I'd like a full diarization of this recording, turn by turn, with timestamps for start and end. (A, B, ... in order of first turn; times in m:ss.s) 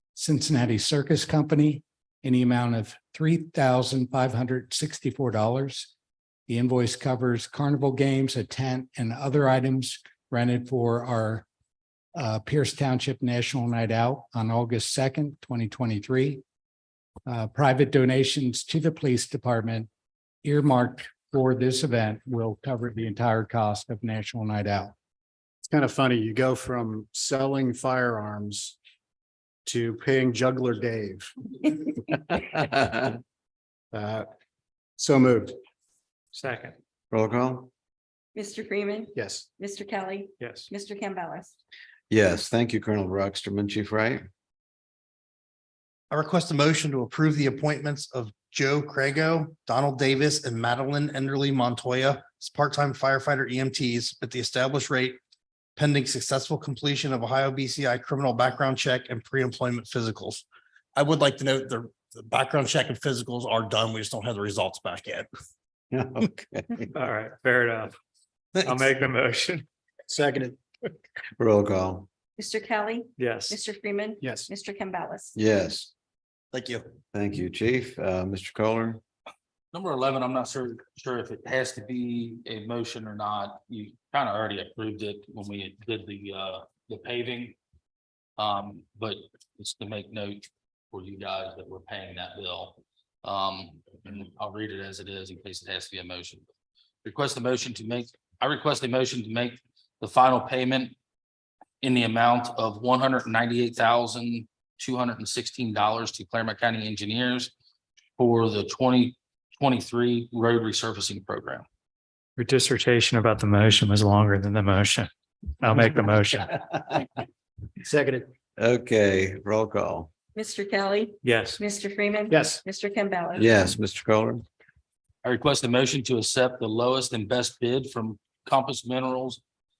0:00.1-0:05.9 A
0:06.5-0:11.4 A
0:12.1-0:16.4 A
0:17.2-0:19.9 A
0:20.4-0:24.9 A
0:25.7-0:28.8 B
0:29.6-0:31.3 B
0:33.9-0:34.3 B
0:35.0-0:35.6 B
0:36.3-0:36.8 C
0:37.1-0:37.7 D
0:38.3-0:41.5 E
0:39.2-0:39.5 B
0:40.4-0:40.7 C
0:42.1-0:44.3 D
0:46.1-0:55.2 F
0:55.8-1:00.4 F
1:01.0-1:05.3 F
1:05.9-1:06.8 D
1:06.9-1:07.9 C
1:08.6-1:09.6 C
1:10.1-1:10.6 B
1:11.4-1:12.1 D
1:12.4-1:15.3 E
1:13.2-1:13.6 C
1:14.2-1:14.5 B
1:15.4-1:15.9 D
1:17.1-1:19.0 D
1:19.7-1:27.6 G
1:28.4-1:36.4 G
1:37.0-1:40.9 G
1:41.8-1:47.5 G
1:48.2-1:51.6 G
1:52.4-1:56.6 C
1:57.8-1:58.3 B
1:58.6-2:00.1 D
2:00.3-2:03.5 E
2:01.2-2:01.6 C
2:02.3-2:02.6 B
2:03.4-2:04.4 D
2:05.2-2:09.4 G